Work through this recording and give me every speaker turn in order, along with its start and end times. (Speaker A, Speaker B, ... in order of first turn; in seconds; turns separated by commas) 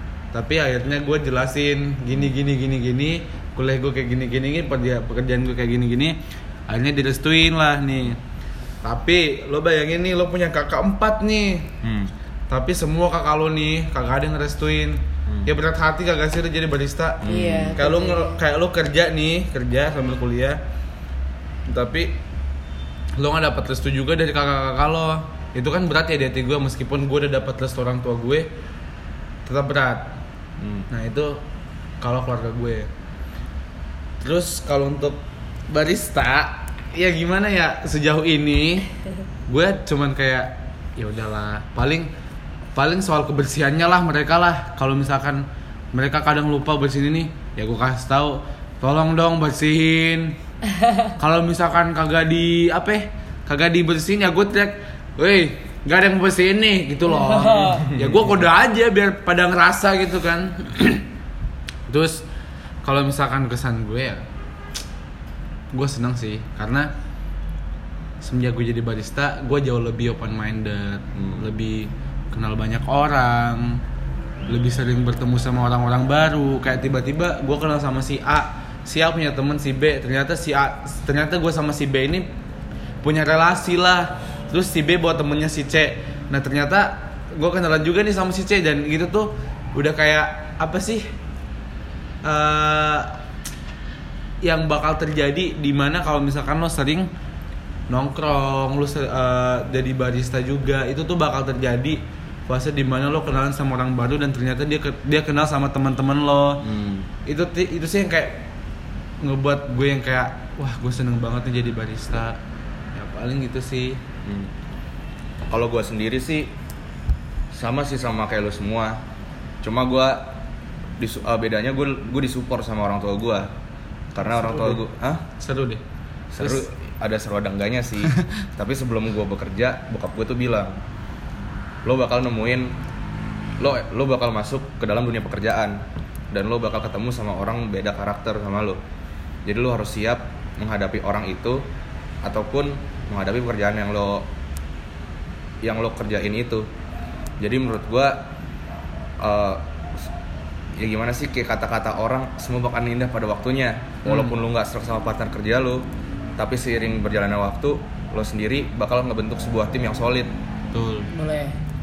Speaker A: 0.3-8.2, Speaker A: 8.8-11.7, Speaker B: 11.8-12.1, Speaker A: 12.5-20.6, Speaker B: 17.2-17.8, Speaker C: 17.2-18.4, Speaker A: 21.7-22.1, Speaker A: 23.2-28.5, Speaker A: 29.4-30.2, Speaker B: 30.6-30.9, Speaker A: 30.9-31.4, Speaker A: 32.0-32.9, Speaker A: 34.2-38.9, Speaker A: 39.5-42.1, Speaker A: 42.7-50.4, Speaker C: 50.8-51.1, Speaker A: 51.2-61.0, Speaker C: 57.1-57.9, Speaker B: 57.9-58.4, Speaker A: 61.9-62.2, Speaker A: 62.8-64.2, Speaker A: 65.7-66.9, Speaker A: 68.2-73.8, Speaker B: 71.1-71.5, Speaker A: 74.5-82.3, Speaker A: 83.0-91.1, Speaker A: 92.2-93.2, Speaker A: 94.4-97.1, Speaker A: 97.9-106.6, Speaker B: 106.6-107.1, Speaker A: 107.2-108.4, Speaker A: 109.2-112.4, Speaker A: 112.9-114.0, Speaker B: 114.2-114.5, Speaker B: 115.5-116.5, Speaker B: 117.5-119.0, Speaker B: 119.6-120.4, Speaker B: 121.0-123.5, Speaker B: 124.1-125.2, Speaker A: 124.3-124.8, Speaker A: 125.4-125.8, Speaker B: 126.3-130.8, Speaker B: 131.8-132.8, Speaker B: 133.6-135.8, Speaker B: 136.3-138.8, Speaker B: 139.4-141.7, Speaker B: 142.2-144.3, Speaker B: 145.6-146.7, Speaker B: 147.4-148.3, Speaker B: 149.2-150.0, Speaker B: 150.8-155.8, Speaker A: 154.1-154.4, Speaker B: 156.4-160.3, Speaker A: 160.7-161.1, Speaker C: 161.1-161.6